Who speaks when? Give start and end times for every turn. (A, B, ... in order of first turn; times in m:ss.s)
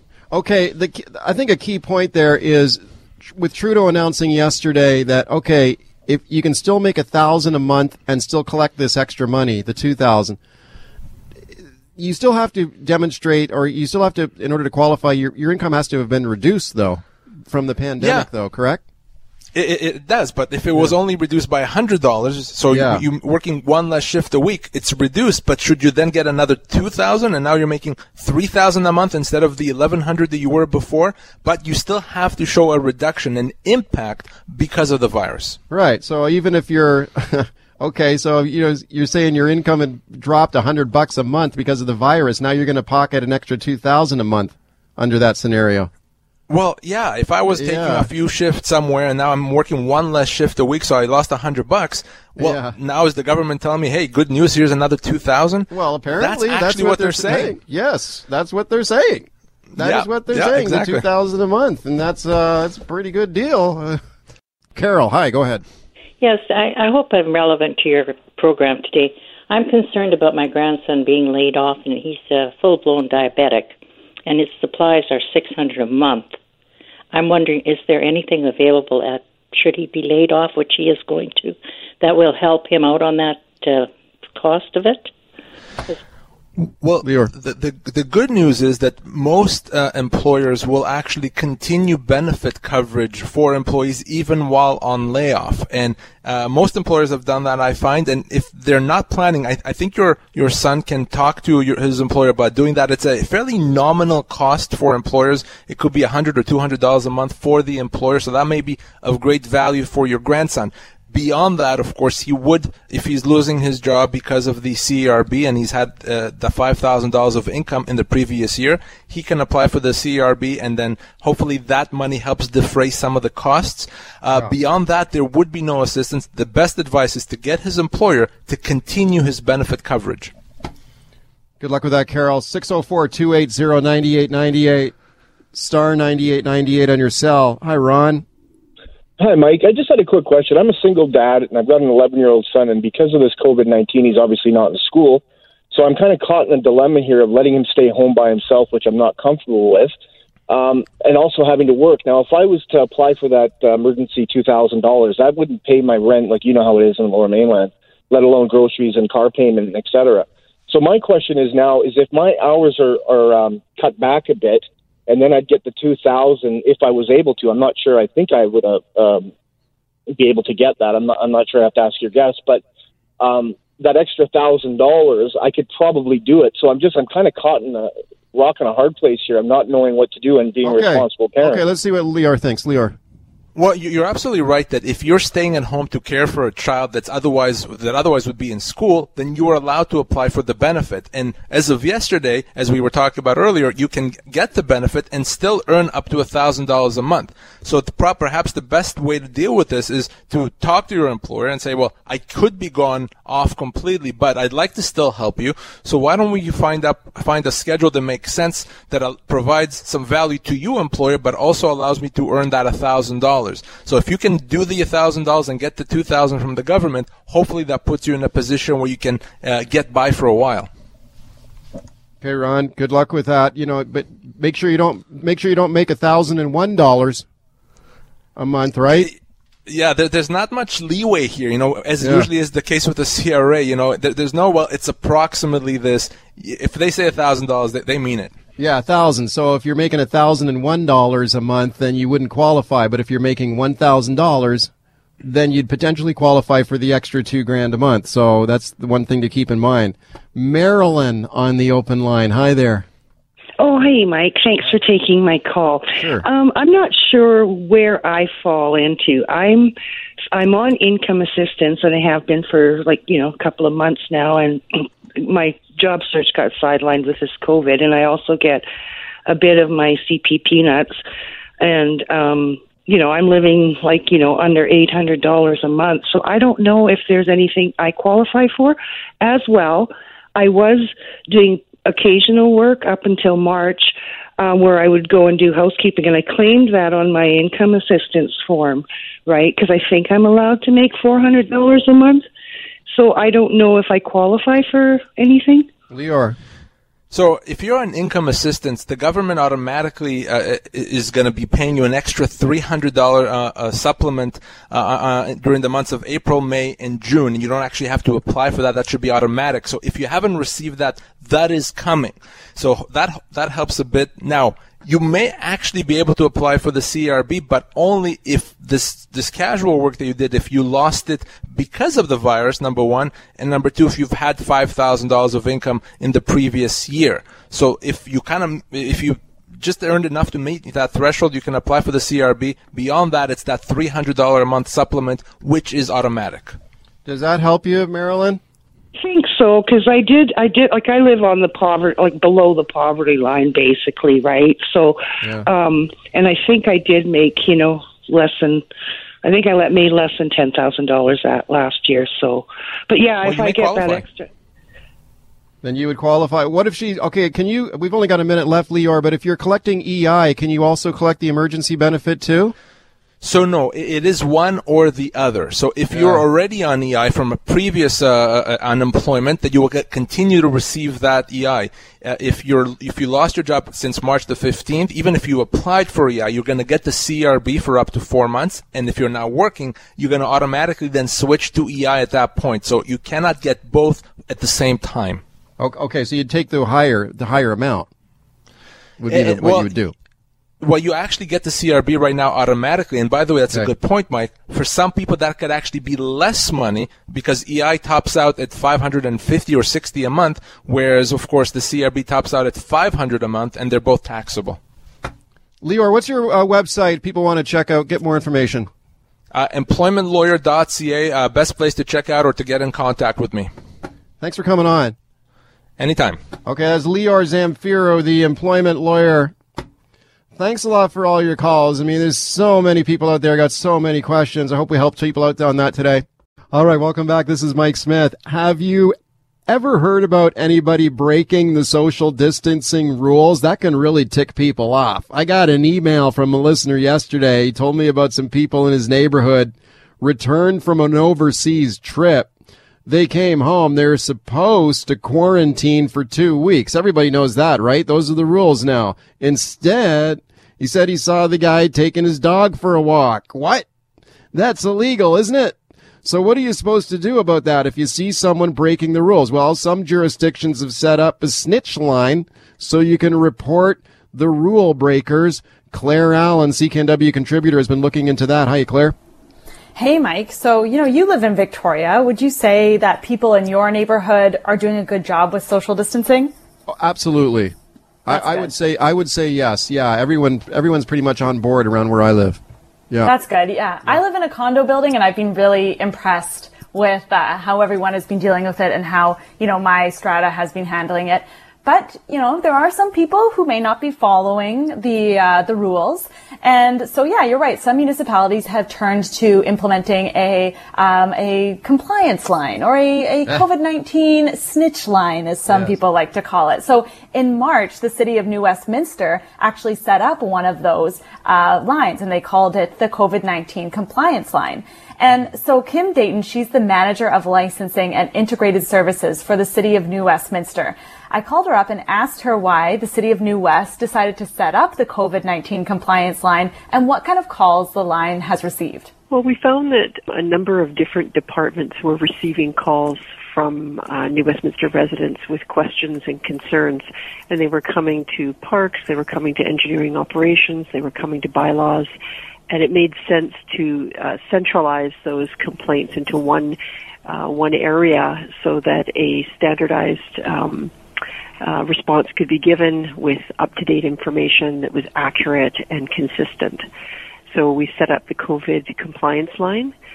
0:00.3-0:10.4 A
0:12.0-0:18.8 A
0:18.0-0:18.3 B
0:19.5-0:35.6 B
0:22.7-0:23.0 A
0:35.7-0:45.9 A
0:46.5-0:57.6 B
0:47.5-0:48.1 A
0:52.4-0:52.7 A
0:55.7-1:04.0 A
0:59.8-1:01.0 B
1:04.7-1:05.6 A
1:06.2-1:16.4 C
1:17.1-1:25.1 C
1:26.8-2:10.3 B
1:27.0-1:27.3 A
2:11.6-2:14.9 A
2:15.5-2:18.2 A
2:19.2-2:49.3 D
2:50.1-2:52.6 D
2:53.2-3:01.6 D
3:00.6-3:03.0 A
3:03.6-3:40.7 B
3:42.2-3:47.2 A
3:48.4-3:49.1 A
3:49.6-3:58.3 B
3:52.0-3:52.3 A
3:58.6-4:04.7 A
4:05.2-4:12.8 A
4:13.6-4:19.7 E
4:16.0-4:16.2 A
4:20.3-4:28.6 E
4:29.2-4:31.0 E
4:31.6-4:52.2 E
4:52.9-4:55.7 E
4:55.9-4:56.4 A
4:57.1-5:36.6 B
5:37.0-5:38.4 A
5:39.0-5:48.6 E
5:49.2-5:54.3 E
5:53.2-5:54.0 B
5:55.6-6:02.5 A
6:03.2-6:25.2 B
6:05.9-6:06.2 A
6:25.6-6:27.9 A
6:29.0-6:29.9 A
6:29.1-6:29.7 B
6:30.6-6:44.6 B
6:45.6-6:48.7 A
6:49.3-6:53.5 B
6:54.2-6:54.9 A
6:55.8-6:56.2 B
6:56.4-6:59.3 A
7:00.3-7:08.9 A
7:09.5-7:22.3 A
7:22.8-7:33.6 A
7:34.3-7:48.9 A
7:49.8-7:56.3 F
7:56.7-7:57.5 A
7:58.0-8:03.1 A
7:58.1-7:58.5 F
8:03.0-8:48.9 F
8:25.5-8:25.8 A
8:49.1-9:01.9 G
9:02.5-9:10.7 G
9:11.4-9:16.6 G
9:17.3-9:19.7 G